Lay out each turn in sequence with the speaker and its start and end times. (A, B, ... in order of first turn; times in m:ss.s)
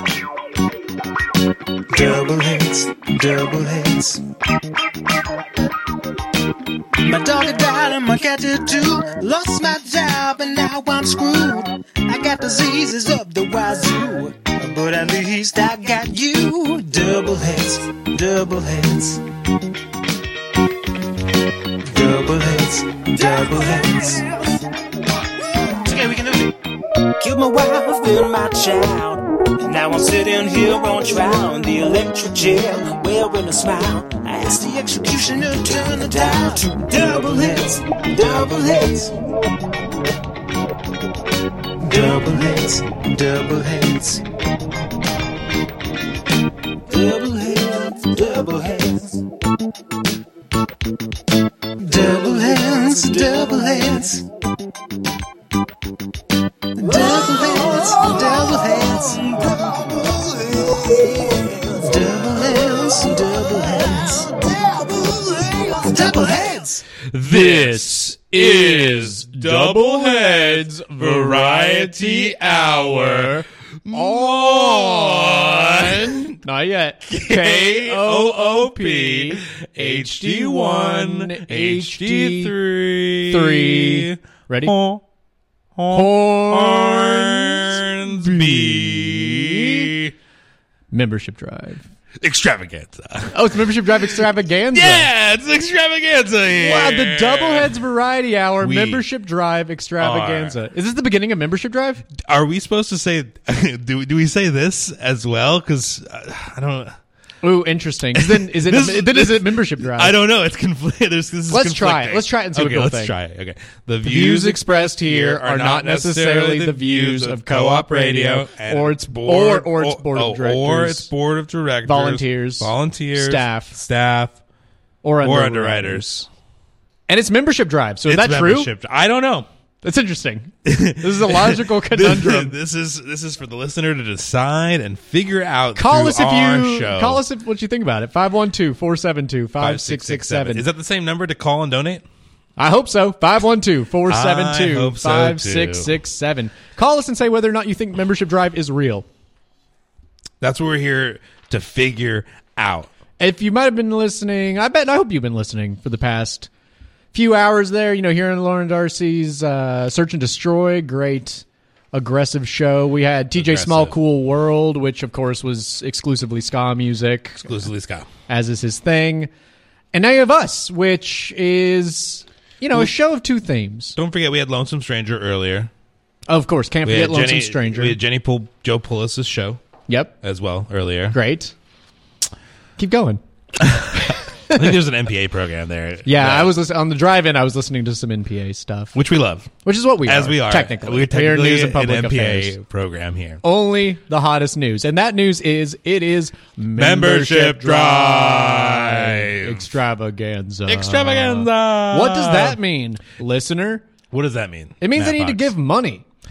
0:01.9-0:04.2 A
0:07.0-0:19.2 A
0:21.8-0:24.2 A
0:25.7-0:26.5 A
0:27.2-0:39.1 A
0:41.8-0:44.2 A
0:46.9-0:49.2 A
0:51.8-0:54.2 A
0:56.8-1:06.8 A
1:07.1-1:13.3 B
1:07.2-1:22.5 C
1:13.8-1:16.3 B
1:17.1-1:25.0 B
1:23.3-1:24.7 C
1:25.8-1:30.1 B
1:25.9-1:29.9 C
1:30.9-1:31.8 C
1:32.2-1:33.4 B
1:33.3-1:35.1 C
1:34.7-1:37.8 B
1:36.5-1:42.0 C
1:38.6-1:39.0 B
1:40.0-1:40.5 B
1:42.1-1:47.0 B
1:47.4-1:50.2 C
1:48.2-2:04.4 B
1:51.5-1:53.1 C
1:54.0-2:01.1 C
2:01.8-2:03.8 C
2:05.0-2:06.0 C
2:05.2-2:06.3 B
2:07.1-2:08.7 C
2:08.0-2:09.5 B
2:09.8-2:12.5 C
2:10.6-2:17.2 B
2:15.7-2:20.6 C
2:19.6-2:22.0 B
2:22.6-2:29.0 C
2:24.1-2:25.9 B
2:30.4-2:32.9 B
2:33.2-2:36.5 C
2:37.1-2:47.5 C
2:43.4-2:43.9 B
2:47.4-2:48.0 B
2:48.3-2:49.3 C
2:49.9-2:54.0 C
2:54.0-2:55.7 B
2:56.3-2:58.0 C
2:56.8-2:59.6 B
2:59.9-3:00.1 C
3:00.2-3:01.2 B
3:01.1-3:01.5 C
3:02.8-3:03.2 C
3:03.6-3:06.5 B
3:06.0-3:08.9 C
3:08.9-3:13.4 B
3:09.6-3:12.5 C
3:13.4-3:23.8 C
3:16.8-3:19.6 B
3:20.7-3:22.6 B
3:24.1-3:25.5 B
3:24.8-3:26.0 C